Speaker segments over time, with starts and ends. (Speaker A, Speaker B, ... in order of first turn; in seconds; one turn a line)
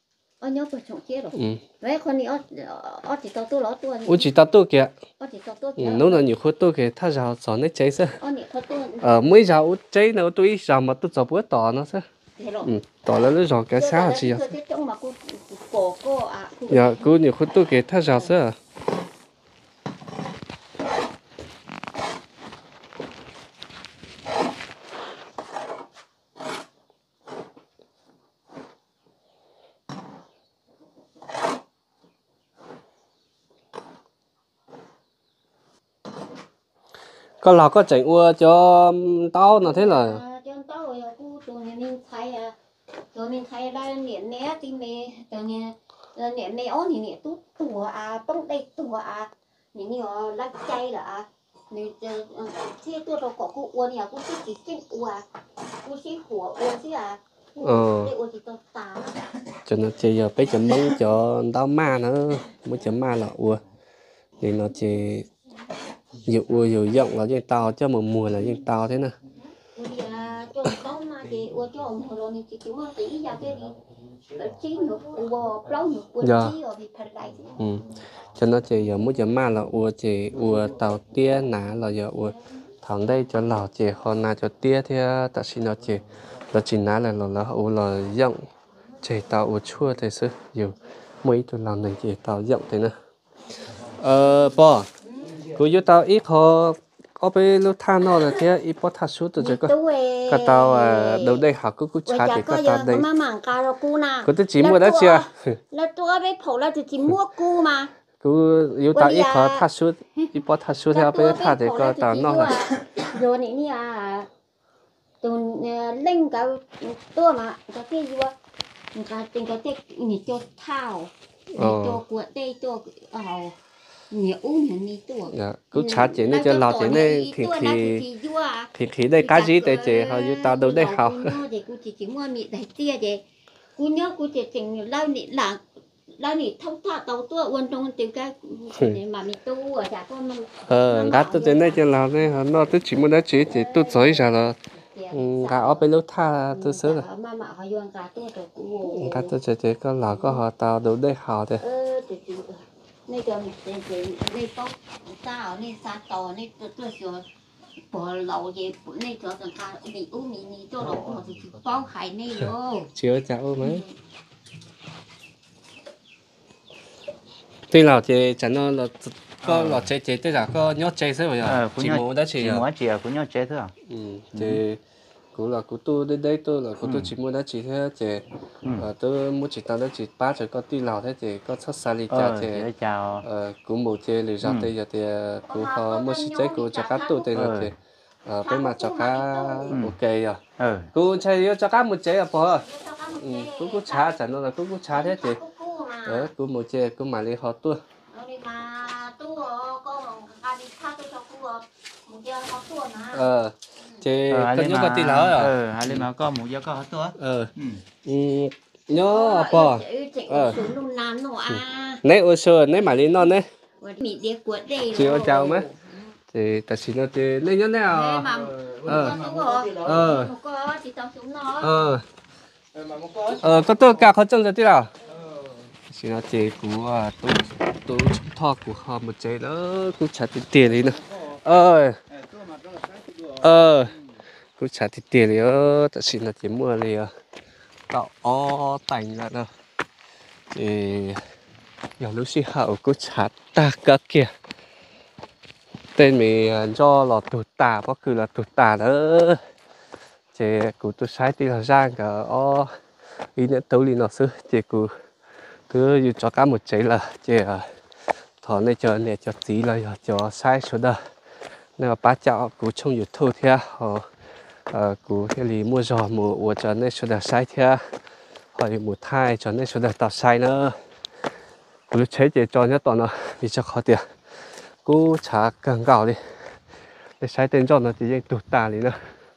Speaker A: 0.4-4.3
Speaker B: 1.3-1.6
Speaker B: 4.1-4.9
Speaker A: 5.2-6.3
Speaker B: 5.8-8.2
Speaker A: 8.2-9.1
Speaker B: 9.0-12.1
Speaker A: 12.4-12.7
Speaker B: 12.6-14.5
Speaker A: 13.7-17.1
Speaker B: 16.7-18.6
Speaker B: 37.4-40.2
Speaker A: 39.6-42.6
Speaker A: 43.1-55.2
Speaker A: 55.8-59.2
Speaker B: 57.6-58.1
Speaker B: 59.7-63.6
Speaker B: 64.4-65.3
Speaker B: 66.2-69.2
Speaker A: 69.7-73.8
Speaker A: 74.3-77.5
Speaker B: 76.2-76.6
Speaker B: 77.6-88.5
Speaker B: 89.0-93.0
Speaker B: 94.0-94.9
Speaker B: 95.5-99.7
Speaker A: 99.4-101.5
Speaker B: 100.3-103.1
Speaker A: 102.1-107.9
Speaker B: 104.2-105.6
Speaker B: 108.2-112.6
Speaker A: 108.9-109.7
Speaker A: 110.9-114.3
Speaker A: 115.2-118.3
Speaker A: 118.9-123.6
Speaker B: 121.5-122.0
Speaker A: 124.1-133.2
Speaker B: 125.3-128.1
Speaker B: 128.7-131.4
Speaker A: 133.8-142.1
Speaker B: 140.7-144.6
Speaker A: 143.3-145.9
Speaker B: 145.1-147.1
Speaker A: 146.5-149.3
Speaker B: 148.8-151.6
Speaker A: 150.1-150.4
Speaker A: 151.6-157.2
Speaker A: 157.9-162.9
Speaker B: 162.9-163.8
Speaker A: 163.6-163.9
Speaker B: 167.7-172.7
Speaker C: 169.4-169.9
Speaker C: 171.4-173.7
Speaker B: 173.9-174.8
Speaker C: 174.3-174.6
Speaker B: 175.3-182.7
Speaker C: 176.8-177.2
Speaker C: 182.1-183.3
Speaker B: 183.2-190.4
Speaker C: 184.4-184.7
Speaker A: 185.5-187.5
Speaker C: 187.3-187.7
Speaker A: 188.4-189.8
Speaker C: 189.7-190.0
Speaker C: 190.6-190.9
Speaker B: 190.9-192.7
Speaker A: 192.5-194.2
Speaker B: 193.2-195.4
Speaker A: 194.9-196.3
Speaker B: 196.1-197.8
Speaker A: 198.1-203.3
Speaker B: 203.1-206.1
Speaker C: 204.3-207.8
Speaker B: 207.2-207.5
Speaker B: 208.1-210.6
Speaker A: 208.9-212.0
Speaker B: 211.5-213.5
Speaker A: 213.8-216.2
Speaker B: 214.9-215.7
Speaker B: 216.3-219.2
Speaker A: 217.9-221.8
Speaker C: 218.5-220.1
Speaker B: 219.7-220.3
Speaker B: 221.6-222.0
Speaker C: 222.8-223.4
Speaker B: 223.3-224.9
Speaker B: 225.9-232.0
Speaker C: 232.2-233.3
Speaker B: 233.4-234.0
Speaker B: 234.6-237.1
Speaker B: 237.9-239.5
Speaker B: 240.5-241.2
Speaker B: 242.0-244.3
Speaker B: 246.0-249.4
Speaker B: 250.3-252.7
Speaker B: 253.4-254.9
Speaker B: 255.7-257.7
Speaker B: 258.4-261.0
Speaker B: 261.8-264.0
Speaker B: 264.7-267.8
Speaker B: 268.6-270.8
Speaker B: 271.9-274.1
Speaker B: 274.8-276.2
Speaker B: 277.2-279.0